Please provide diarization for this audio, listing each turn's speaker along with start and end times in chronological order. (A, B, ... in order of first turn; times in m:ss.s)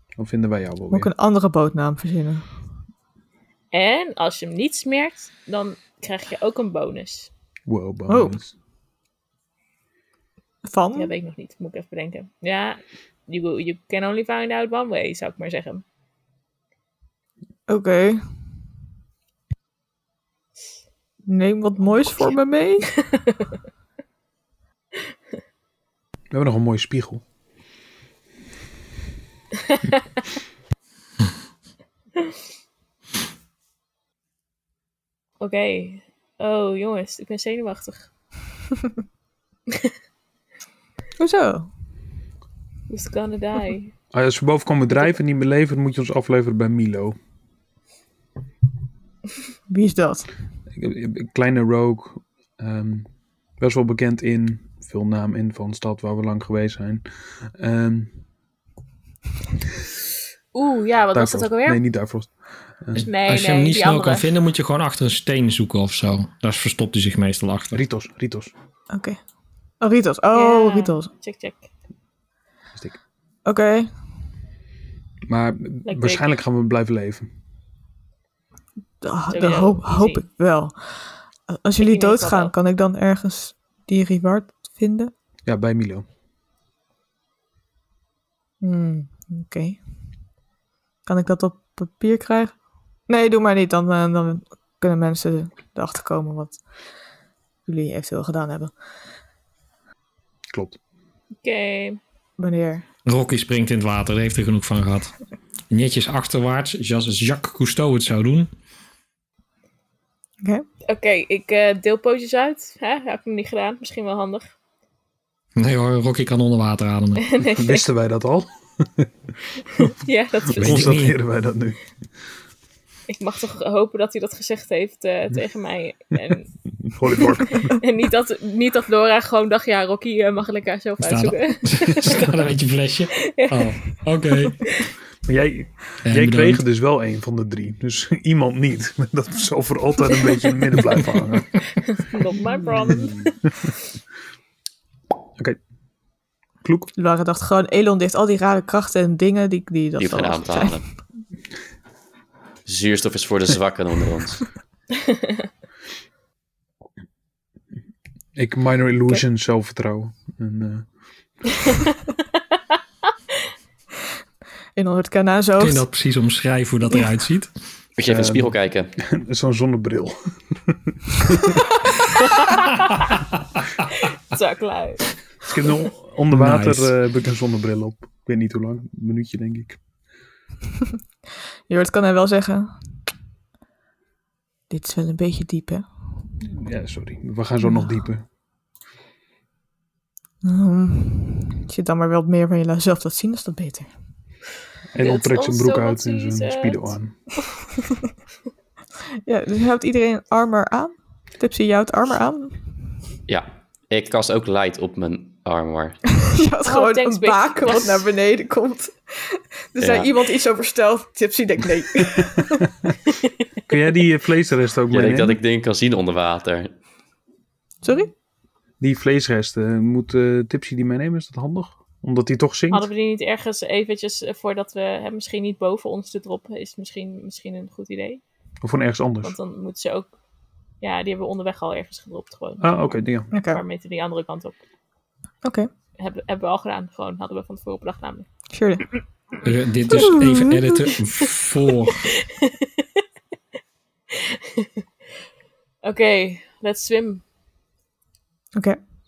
0:00.2-0:01.1 A
0:00.9-0:02.4 B
0:03.7-0:07.3 C
0:07.7-0:08.5 A
0:08.1-0:08.4 B
0:10.7-0:11.1 B
0:11.0-0:15.8 C
0:17.7-0:18.2 B
0:21.3-0:22.9 B
0:23.1-0:23.5 C
0:26.3-0:27.2 A
0:29.7-0:30.2 C
0:35.4-0:38.1 C
0:41.2-0:41.7 B
0:42.9-0:43.9 C
0:44.1-0:47.2 A
0:49.7-0:50.3 B
0:50.8-0:53.1 A
0:53.6-0:58.1 A
1:00.5-1:01.8 C
1:01.1-1:03.0 A
1:03.0-1:07.8 D
1:03.0-1:04.3 C
1:07.7-1:08.5 A
1:08.9-1:09.2 B
1:09.8-1:11.1 B
1:10.3-1:11.7 C
1:13.4-1:13.9 B
1:15.3-1:17.3 A
1:15.8-1:16.3 C
1:19.0-1:20.8 B
1:19.3-1:20.2 C
1:21.5-1:25.1 B
1:21.8-1:22.5 C
1:25.5-1:26.0 A
1:28.6-1:29.8 B
1:31.1-1:32.5 B
1:33.1-1:36.6 B
1:37.7-1:38.7 B
1:40.5-1:40.8 A
1:41.4-1:42.0 C
1:42.4-1:42.8 B
1:43.1-1:45.1 D
1:45.7-1:48.5 D
1:50.9-1:54.5 C
1:55.6-1:57.3 D
1:57.2-1:57.9 C
1:57.5-1:59.1 A
1:59.8-2:01.1 C
2:00.6-2:01.2 D
2:00.6-2:01.8 A
2:03.1-2:06.5 C
2:06.9-2:07.8 A
2:07.4-2:12.3 C
2:11.0-2:14.6 D
2:13.2-2:14.0 C
2:15.3-2:21.6 A
2:16.1-2:16.6 D
2:21.8-2:23.3 C
2:26.6-2:26.9 A
2:27.0-2:30.8 B
2:30.0-2:30.8 E
2:32.7-2:34.5 E
2:35.0-2:35.4 C
2:38.4-2:40.9 A
2:44.8-2:45.8 B
2:45.6-2:47.5 D
2:48.0-2:48.9 E
2:48.1-2:51.5 A
2:52.3-2:53.1 C
2:54.1-2:55.1 C
2:55.4-2:59.8 A
2:56.3-2:56.9 D
3:01.7-3:02.7 B
3:04.7-3:05.8 B
3:06.5-3:08.2 A
3:07.6-3:08.0 B
3:10.4-3:13.9 B
3:14.9-3:17.2 A
3:15.0-3:17.0 C
3:19.2-3:22.6 B
3:23.3-3:26.0 E
3:26.2-3:32.7 B
3:26.6-3:28.0 C
3:29.8-3:30.1 E
3:33.7-3:35.4 A
3:34.9-3:36.7 E
3:37.8-3:38.1 B
3:38.8-3:42.9 A
3:42.7-3:48.2 C
3:48.6-3:49.4 A
3:49.2-3:50.1 C
3:50.8-3:52.8 C
3:52.6-3:53.3 A
3:53.3-3:53.6 B
3:53.3-3:54.6 C
3:55.4-3:55.7 B
3:56.0-3:58.3 C
3:58.5-3:58.8 B
3:59.4-4:02.1 D
4:00.0-4:00.7 B
4:01.9-4:02.5 C
4:04.3-4:04.7 C
4:05.8-4:07.2 C